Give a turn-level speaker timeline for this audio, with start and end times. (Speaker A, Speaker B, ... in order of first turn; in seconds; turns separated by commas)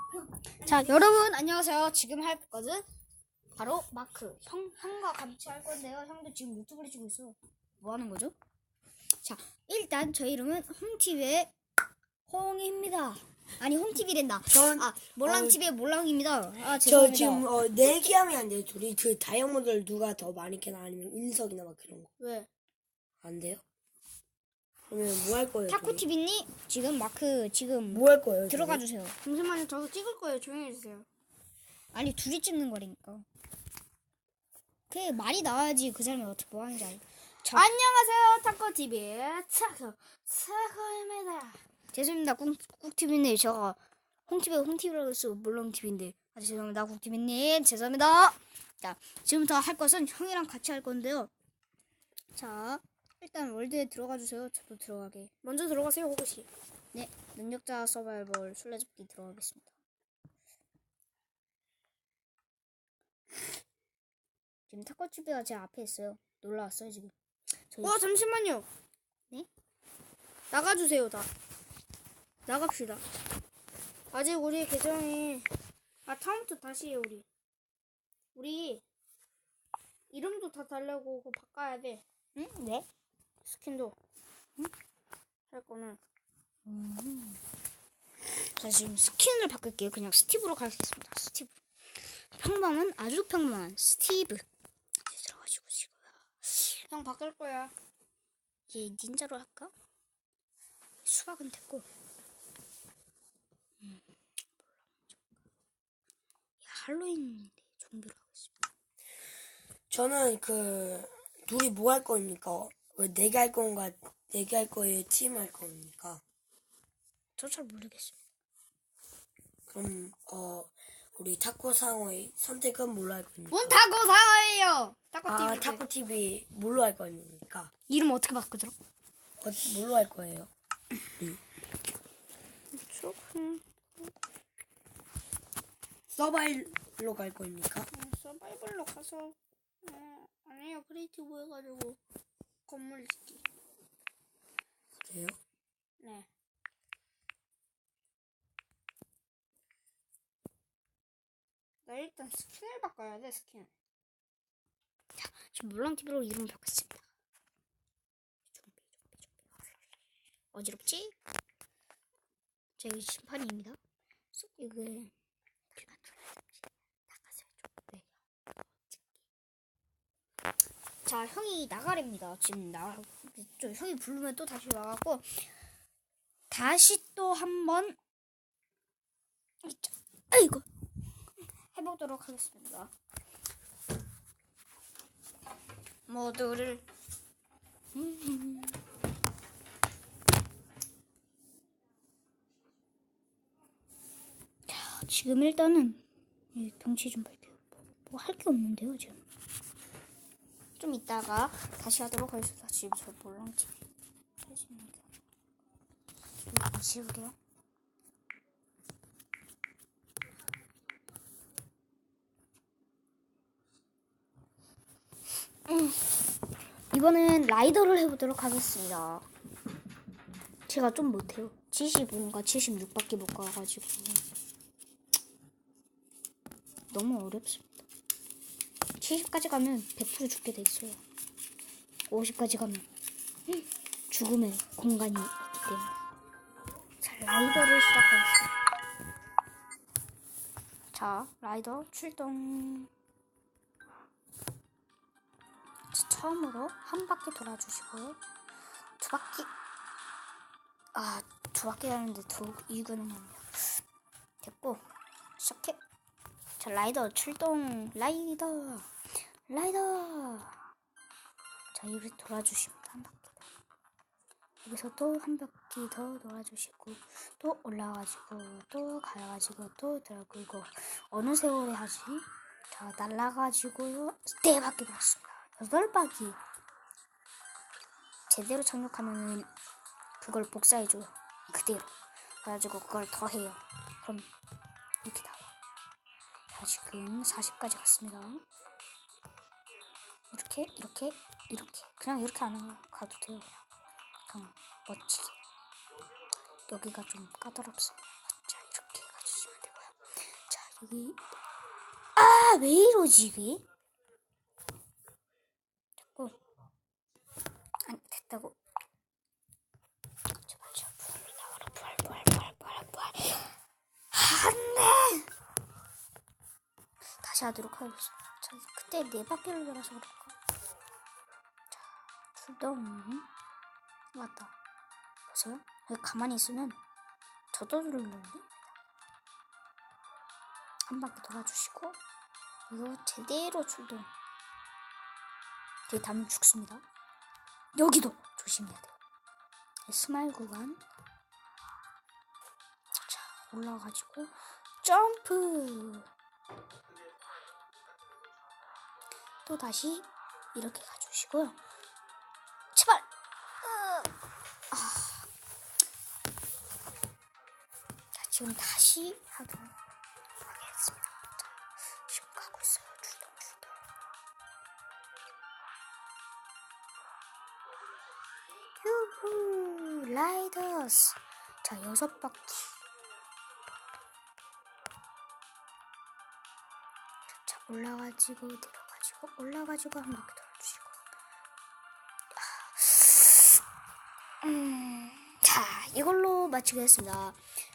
Speaker A: 0.5-2.9, Speaker A: 3.6-8.3, Speaker A: 9.2-11.5, Speaker A: 12.3-17.5, Speaker B: 14.5-15.6, Speaker B: 16.8-22.1, Speaker C: 22.2-22.5, Speaker B: 23.2-23.6, Speaker B: 24.9-26.0, Speaker A: 25.7-29.2, Speaker B: 27.9-28.8, Speaker C: 29.2-31.1, Speaker A: 31.9-33.3, Speaker A: 34.9-37.7, Speaker C: 37.5-41.6, Speaker A: 41.9-51.3, Speaker A: 52.4-55.3, Speaker C: 55.4-56.5, Speaker A: 56.9-59.7, Speaker A: 64.7-67.1, Speaker A: 67.7-68.0, Speaker C: 67.8-68.7, Speaker C: 70.5-71.3, Speaker C: 72.5-73.0, Speaker C: 74.1-75.5, Speaker C: 76.1-77.2, Speaker C: 78.3-78.8, Speaker C: 80.1-82.0, Speaker A: 82.4-82.9, Speaker C: 83.5-84.0, Speaker C: 85.5-86.0, Speaker A: 86.7-87.4, Speaker A: 88.5-91.6, Speaker A: 92.3-94.5, Speaker A: 95.0-96.8, Speaker C: 96.9-97.7, Speaker A: 98.7-99.7, Speaker A: 101.0-101.9, Speaker A: 104.6-105.2, Speaker A: 106.6-108.5, Speaker B: 109.9-116.2, Speaker A: 117.4-118.2, Speaker B: 119.7-123.8, Speaker C: 123.5-125.8, Speaker B: 125.3-127.7, Speaker A: 127.9-128.7, Speaker B: 129.4-130.5, Speaker A: 132.8-133.6, Speaker B: 136.1-137.9, Speaker C: 137.9-142.0, Speaker C: 142.7-143.4, Speaker B: 145.0-145.4, Speaker C: 146.0-146.3, Speaker C: 151.9-153.7, Speaker A: 155.2-157.1, Speaker A: 158.5-159.5, Speaker A: 160.5-161.1, Speaker A: 162.8-163.8, Speaker A: 164.3-165.1, Speaker A: 165.7-168.1, Speaker A: 168.9-169.2, Speaker A: 171.1-175.5, Speaker A: 176.5-178.0, Speaker A: 179.6-180.7, Speaker A: 181.7-182.9, Speaker A: 186.1-186.8, Speaker A: 187.9-188.8, Speaker A: 194.7-196.0, Speaker A: 196.5-199.2, Speaker A: 200.8-203.7, Speaker A: 204.5-205.0, Speaker A: 206.5-207.4, Speaker A: 215.7-216.0, Speaker A: 216.9-219.3, Speaker A: 220.7-224.2, Speaker A: 226.9-227.8, Speaker A: 229.0-231.0, Speaker A: 232.1-232.9, Speaker A: 233.5-235.9, Speaker A: 237.0-238.5, Speaker A: 240.9-242.9, Speaker A: 245.9-248.2, Speaker A: 249.0-249.5, Speaker A: 250.9-253.8, Speaker A: 254.4-254.8, Speaker A: 255.4-255.8, Speaker A: 256.6-258.9, Speaker A: 259.5-260.6, Speaker A: 261.7-263.4, Speaker A: 264.6-276.4, Speaker A: 278.3-279.5, Speaker A: 280.2-284.3, Speaker A: 285.0-285.5, Speaker A: 286.5-288.4, Speaker A: 290.3-293.6, Speaker A: 294.3-295.4, Speaker A: 296.7-301.2, Speaker A: 302.2-303.6, Speaker A: 306.0-306.4, Speaker A: 307.9-308.6, Speaker A: 310.4-313.6, Speaker A: 314.1-315.3, Speaker A: 317.2-320.3, Speaker A: 321.7-323.3, Speaker A: 324.1-324.5, Speaker A: 325.3-326.8, Speaker A: 327.5-328.6, Speaker A: 330.9-332.0, Speaker A: 332.7-334.1, Speaker A: 335.9-336.8, Speaker A: 337.7-338.9, Speaker A: 339.9-340.8, Speaker A: 343.0-346.1, Speaker A: 349.4-351.6, Speaker A: 352.7-353.1, Speaker A: 353.6-354.1, Speaker A: 354.7-355.3, Speaker A: 358.1-359.7, Speaker A: 360.4-361.5, Speaker A: 362.1-363.7, Speaker A: 368.8-372.8, Speaker A: 377.4-381.0, Speaker A: 382.4-383.6, Speaker A: 384.4-387.4